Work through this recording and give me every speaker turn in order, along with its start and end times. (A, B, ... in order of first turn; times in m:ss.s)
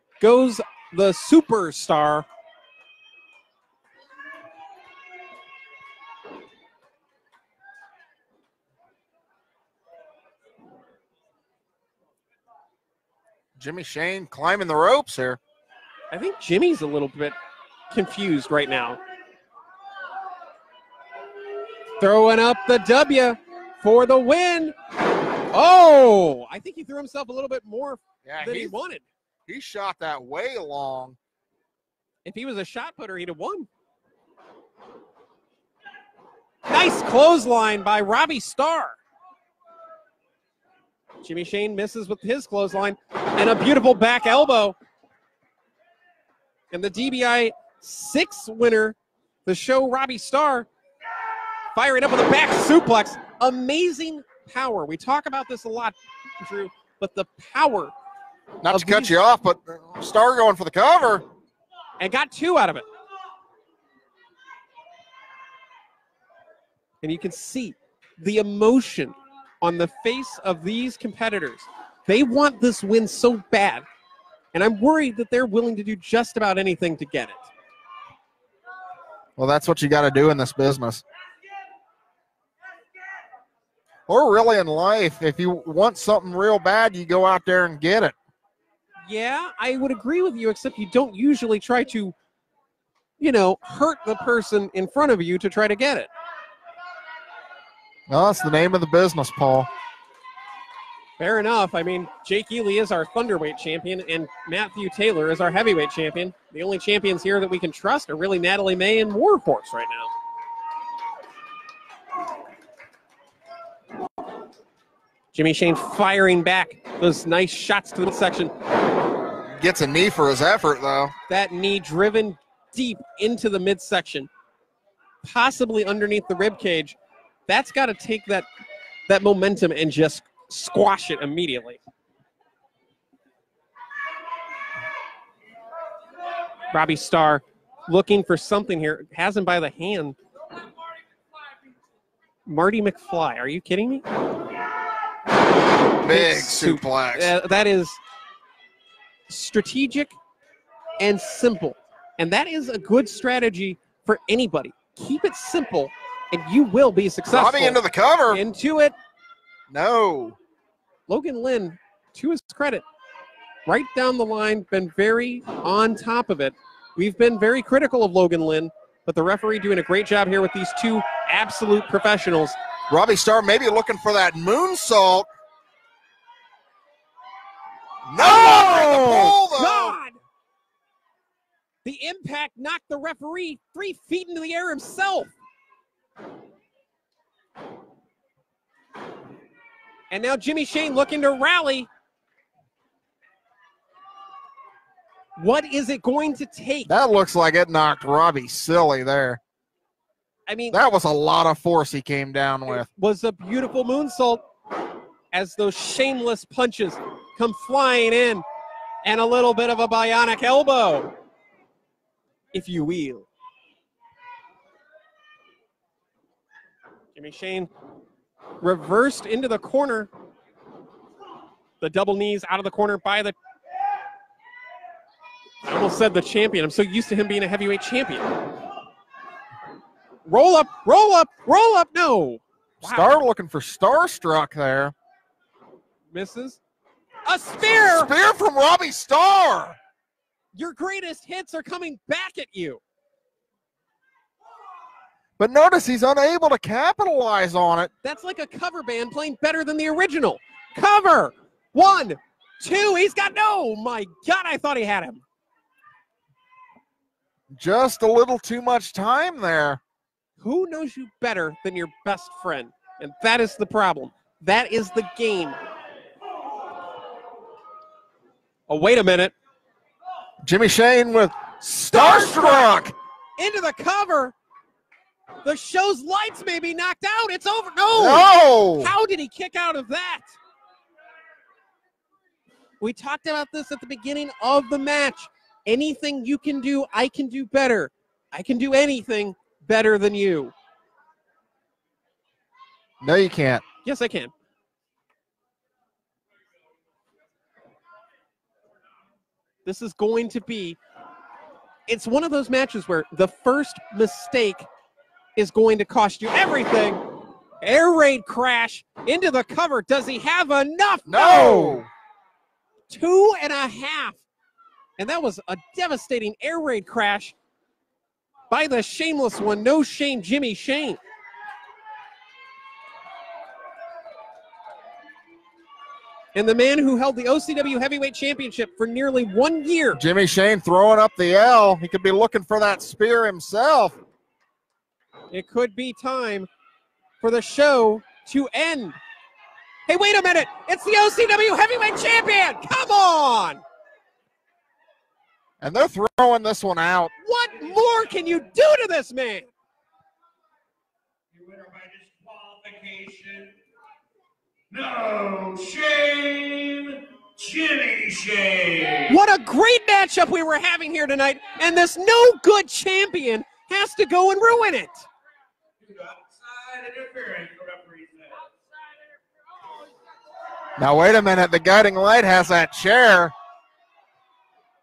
0:00.2-0:02.2 A
0:13.6-0:15.4 B
0:16.1-0:17.3 A
0:17.9-0:19.0 A
0:22.0-0:24.7 A
0:25.5-0:29.0 A
0:28.2-0:28.7 B
0:29.5-0:31.2 B
0:32.2-0:33.7 A
0:36.7-0:39.0 A
0:41.2-0:44.8 A
0:46.7-0:50.7 A
0:51.7-0:57.9 A
0:58.6-1:01.2 B
0:58.7-0:59.2 A
1:02.0-1:02.8 A
1:07.0-1:13.8 A
1:14.5-1:17.5 A
1:19.4-1:21.0 B
1:24.1-1:28.2 B
1:29.0-1:32.1 A
1:33.2-1:36.1 A
1:38.1-1:39.7 B
1:41.2-1:50.1 A
1:55.3-1:58.5 A
1:59.6-2:01.1 B
2:01.3-2:04.3 A
2:05.2-2:07.0 A
2:07.5-2:08.5 A
2:09.1-2:11.8 A
2:16.7-2:20.2 A
2:22.4-2:24.0 A
2:26.0-2:27.3 B
2:26.0-2:28.0 A
2:29.3-2:30.1 A
2:31.0-2:38.9 A
2:37.3-2:38.4 B
2:39.7-2:40.4 B
2:41.1-2:42.8 A
2:43.7-2:52.6 A
2:52.9-2:55.3 B
2:58.1-3:00.0 B
2:58.2-3:00.2 A
3:01.8-3:05.3 A
3:10.1-3:11.9 A
3:15.4-3:16.9 A
3:16.8-3:19.4 B
3:20.5-3:20.8 A
3:20.7-3:22.9 B
3:22.7-3:24.4 A
3:25.3-3:28.4 A
3:29.0-3:31.1 A
3:32.5-3:33.3 A
3:37.1-3:37.7 A
3:38.6-3:40.1 A
3:41.8-3:43.3 A
3:45.6-3:48.3 A
3:50.2-3:53.2 A
3:52.8-3:54.9 B
3:56.1-3:56.6 A
3:57.2-3:58.1 A
3:57.6-3:59.8 B
4:00.5-4:02.8 A
4:05.4-4:07.9 B
4:08.0-4:15.2 A
4:17.5-4:19.8 B
4:20.4-4:25.6 A
4:28.7-4:29.3 A
4:30.4-4:32.9 B
4:31.7-4:32.8 A
4:33.4-4:34.3 A
4:35.4-4:40.3 A
4:37.9-4:38.9 B
4:42.8-4:50.5 A
4:53.0-4:53.6 B
4:53.8-4:54.3 A
4:59.6-5:00.8 A
5:01.9-5:04.7 A
5:05.4-5:07.0 A
5:07.6-5:11.8 A
5:11.0-5:11.9 B
5:12.9-5:14.2 A
5:15.0-5:17.3 A
5:18.5-5:21.0 A
5:26.3-5:30.0 A
5:30.0-5:34.0 B
5:35.3-5:36.5 A
5:37.2-5:39.0 A
5:39.9-5:43.6 A
5:45.6-5:47.1 B
5:47.2-5:49.5 A
5:51.5-5:53.5 C
5:54.7-5:58.9 C
5:59.0-6:05.1 A
6:06.1-6:08.2 C
6:10.8-6:13.3 B